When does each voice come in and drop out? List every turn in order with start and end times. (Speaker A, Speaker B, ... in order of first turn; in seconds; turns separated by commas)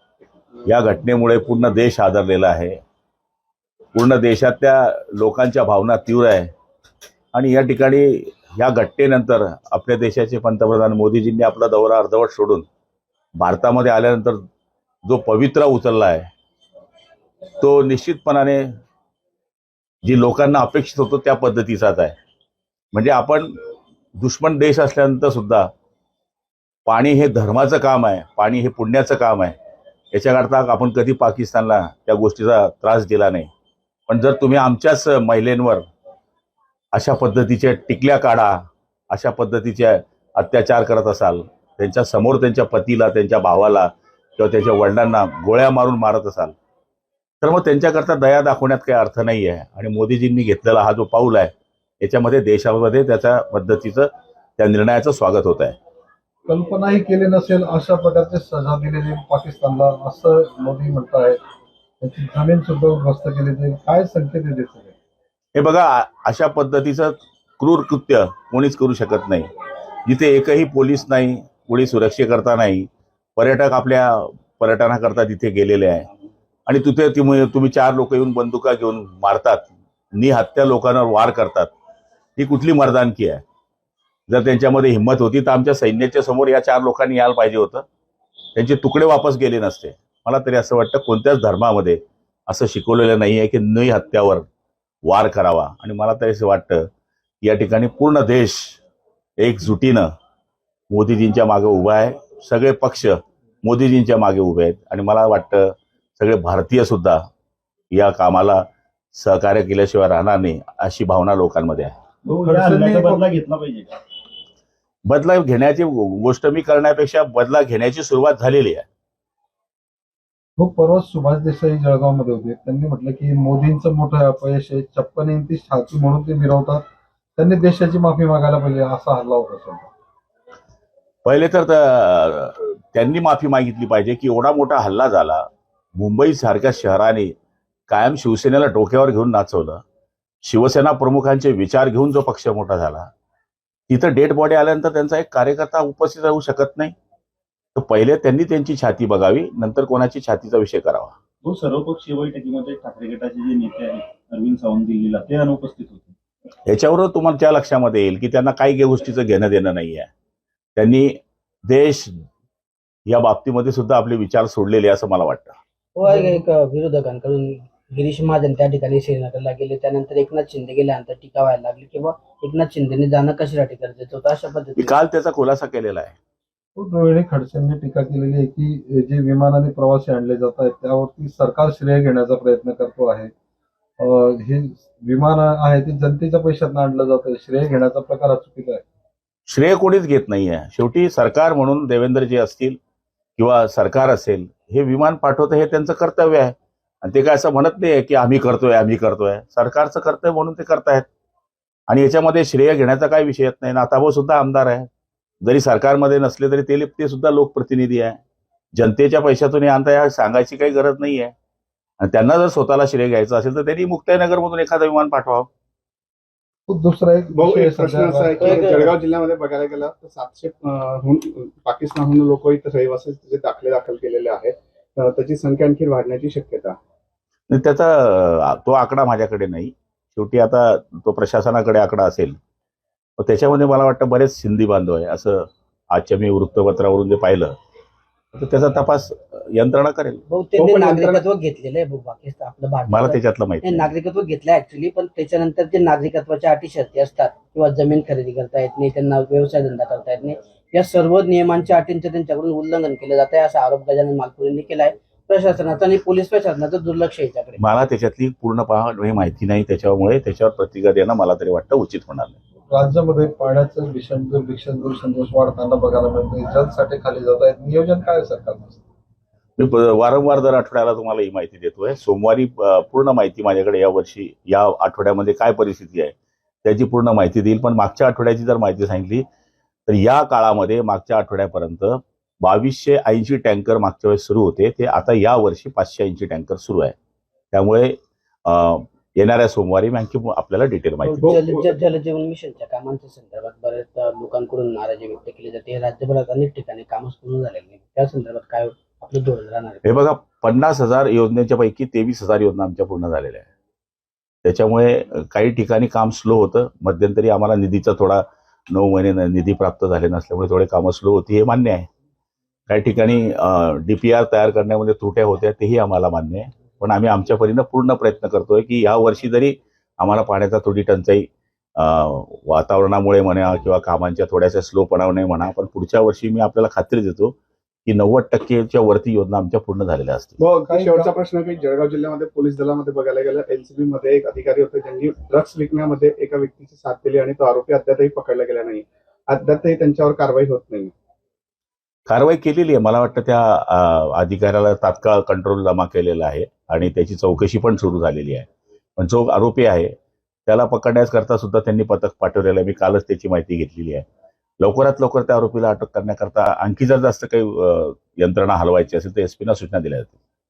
Speaker A: 0.6-2.8, Speaker A: 3.9-6.5, Speaker A: 7.3-12.7, Speaker A: 13.4-14.4, Speaker A: 15.0-16.3, Speaker A: 17.6-18.8, Speaker A: 20.0-22.1, Speaker A: 22.9-23.5, Speaker A: 24.2-25.7, Speaker A: 26.9-29.5, Speaker A: 30.1-33.5, Speaker A: 34.1-35.8, Speaker A: 36.9-46.5, Speaker A: 47.4-55.8, Speaker B: 56.5-61.4, Speaker B: 62.0-64.9, Speaker A: 65.5-69.5, Speaker A: 70.0-76.1, Speaker A: 76.7-81.7, Speaker A: 82.4-83.4, Speaker A: 84.3-87.8, Speaker A: 88.5-94.4, Speaker A: 95.0-96.9, Speaker A: 97.4-98.8, Speaker A: 99.4-100.1, Speaker A: 100.9-107.2, Speaker A: 107.9-111.9, Speaker C: 112.2-114.0, Speaker B: 112.4-113.3, Speaker A: 115.0-118.8, Speaker B: 120.6-126.8, Speaker B: 127.4-129.9, Speaker A: 131.2-137.3, Speaker A: 137.9-139.8, Speaker A: 140.4-143.1, Speaker A: 143.9-146.9, Speaker A: 147.8-151.2, Speaker C: 151.4-156.2, Speaker A: 156.7-160.1, Speaker A: 160.8-162.2, Speaker A: 163.1-165.6, Speaker D: 165.9-175.0, Speaker B: 166.0-166.4, Speaker A: 174.8-176.2, Speaker B: 176.8-183.3, Speaker B: 184.0-188.8, Speaker A: 189.5-192.8, Speaker A: 193.4-201.1, Speaker A: 201.9-204.9, Speaker A: 205.4-208.2, Speaker A: 208.7-211.3, Speaker A: 212.0-215.5, Speaker B: 216.7-218.9, Speaker E: 217.4-226.8, Speaker D: 218.4-218.8, Speaker A: 227.5-232.3, Speaker A: 233.2-237.5, Speaker A: 238.3-240.2, Speaker D: 240.3-257.6, Speaker E: 240.6-241.2, Speaker A: 242.9-243.9, Speaker A: 257.6-262.4, Speaker B: 262.7-268.8, Speaker A: 269.6-279.2, Speaker A: 279.9-286.9, Speaker A: 287.5-291.4, Speaker D: 291.0-299.8, Speaker E: 291.2-291.7, Speaker A: 299.8-303.5, Speaker A: 304.4-311.9, Speaker A: 312.7-330.4, Speaker E: 330.4-340.9, Speaker B: 330.6-331.1, Speaker A: 342.1-349.9, Speaker A: 350.4-354.1, Speaker A: 354.6-360.2